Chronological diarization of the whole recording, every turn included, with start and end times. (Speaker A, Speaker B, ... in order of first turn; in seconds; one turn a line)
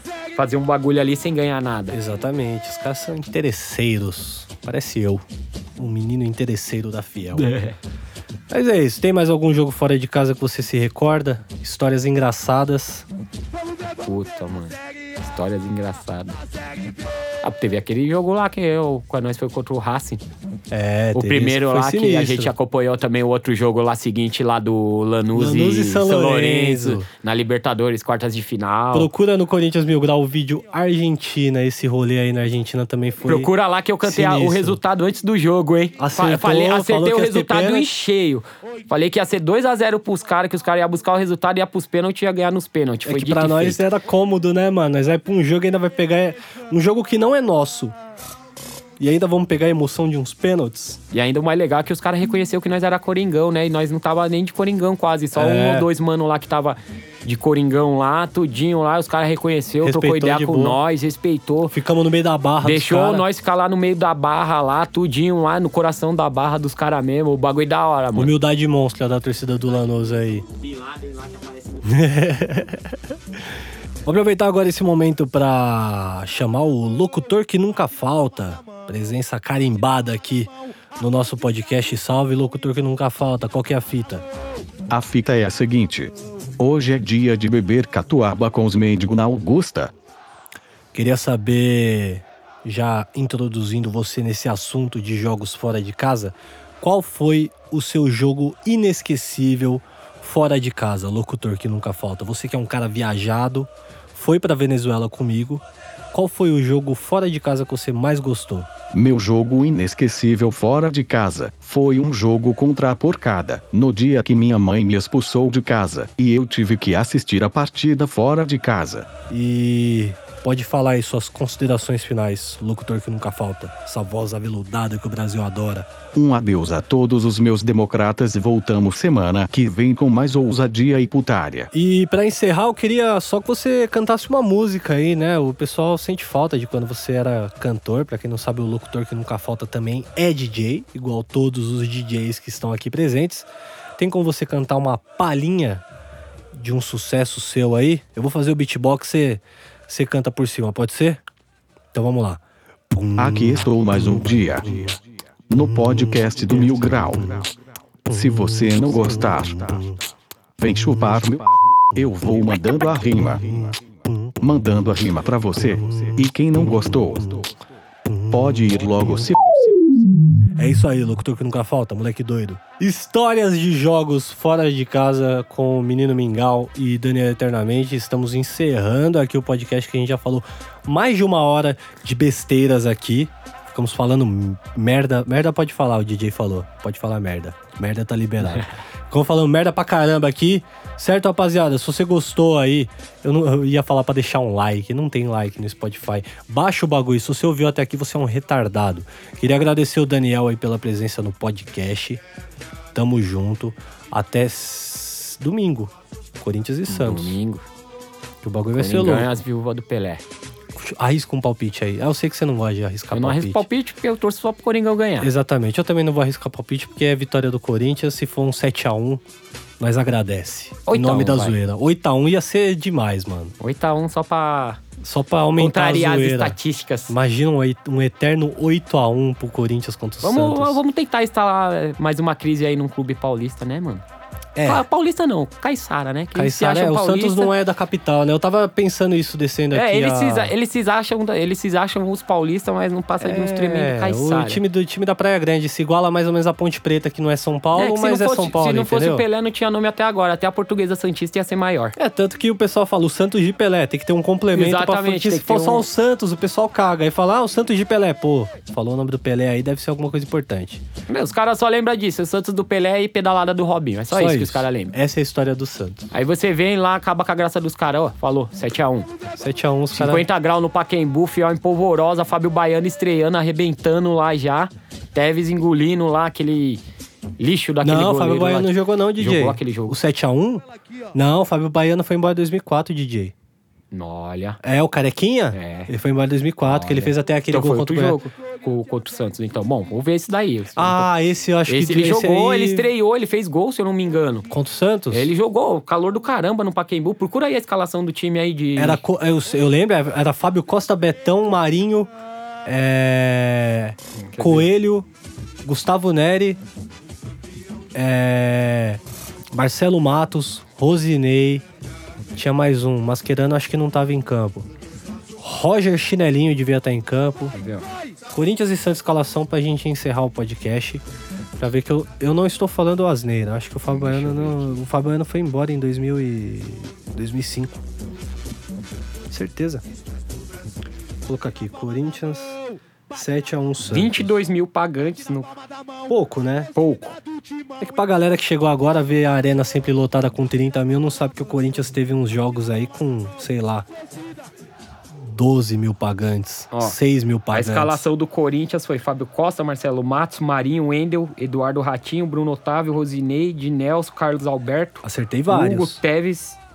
Speaker A: 0.4-2.0
Speaker B: 1.9-5.2
Speaker B: 5.8-7.5
Speaker A: 7.3-7.8
Speaker B: 8.5-13.1
Speaker A: 14.0-16.4
Speaker A: 17.4-20.2
Speaker B: 20.7-22.5
Speaker A: 21.1-29.1
Speaker B: 25.3-27.1
Speaker B: 28.9-33.5
Speaker A: 33.3-43.8
Speaker B: 34.0-34.8
Speaker B: 36.0-37.9
Speaker B: 43.1-48.0
Speaker B: 49.0-51.0
Speaker A: 51.1-61.8
Speaker B: 55.4-55.9
Speaker B: 59.8-60.8
Speaker B: 61.7-63.3
Speaker A: 62.6-68.3
Speaker B: 68.2-70.5
Speaker A: 70.6-71.8
Speaker B: 71.8-73.0
Speaker B: 74.0-84.3
Speaker C: 84.9-89.9
Speaker B: 90.9-108.7
Speaker C: 108.9-119.1
Speaker B: 119.3-125.9
Speaker C: 126.1-131.7
Speaker B: 131.7-145.8
Speaker B: 146.5-151.2
Speaker B: 151.9-155.0
Speaker C: 153.2-155.0
Speaker C: 155.5-157.5
Speaker B: 155.6-157.5
Speaker B: 158.1-160.0
Speaker C: 158.1-159.8
Speaker C: 160.6-163.7
Speaker B: 160.8-161.2
Speaker B: 161.9-164.4
Speaker C: 164.4-167.5
Speaker B: 165.6-167.5
Speaker B: 168.1-169.3
Speaker C: 168.3-169.8
Speaker B: 170.6-202.2
Speaker B: 202.9-207.4
Speaker A: 206.9-207.6
Speaker B: 208.4-209.3
Speaker A: 208.8-210.2
Speaker B: 210.8-213.6
Speaker A: 213.1-215.3
Speaker B: 215.2-219.2
Speaker B: 219.8-223.5
Speaker A: 220.9-221.6
Speaker A: 223.6-224.8
Speaker B: 225.0-226.6
Speaker A: 225.6-227.1
Speaker B: 227.1-230.8
Speaker A: 230.2-234.0
Speaker B: 234.6-234.8
Speaker A: 234.6-237.5
Speaker B: 236.3-240.5
Speaker A: 239.7-244.6
Speaker B: 243.2-249.3
Speaker A: 247.8-252.0
Speaker B: 252.0-260.8
Speaker A: 254.5-255.9
Speaker A: 261.1-264.9
Speaker B: 264.1-266.1
Speaker A: 266.1-269.1
Speaker B: 269.4-270.3
Speaker A: 269.9-276.8
Speaker A: 277.4-280.0
Speaker B: 277.8-280.6
Speaker B: 281.1-283.3
Speaker A: 283.9-284.6
Speaker B: 284.6-288.3
Speaker A: 285.5-285.9
Speaker A: 286.6-291.1
Speaker B: 290.8-292.9
Speaker A: 291.7-294.5
Speaker B: 294.5-295.3
Speaker A: 295.1-299.0
Speaker B: 298.8-302.1
Speaker B: 302.7-305.1
Speaker A: 304.3-304.7
Speaker B: 305.6-306.6
Speaker B: 307.9-309.0
Speaker B: 309.5-311.6
Speaker B: 312.3-314.7
Speaker B: 315.4-317.6
Speaker A: 317.6-317.9
Speaker B: 318.3-321.0
Speaker B: 321.6-327.8
Speaker A: 323.9-324.6
Speaker B: 329.3-329.8
Speaker B: 331.3-332.6
Speaker B: 333.1-334.3
Speaker A: 333.9-335.5
Speaker B: 336.1-336.7
Speaker A: 336.8-337.1
Speaker B: 337.8-343.9
Speaker B: 345.1-348.1
Speaker A: 346.7-347.0
Speaker A: 347.5-356.6
Speaker B: 355.0-356.0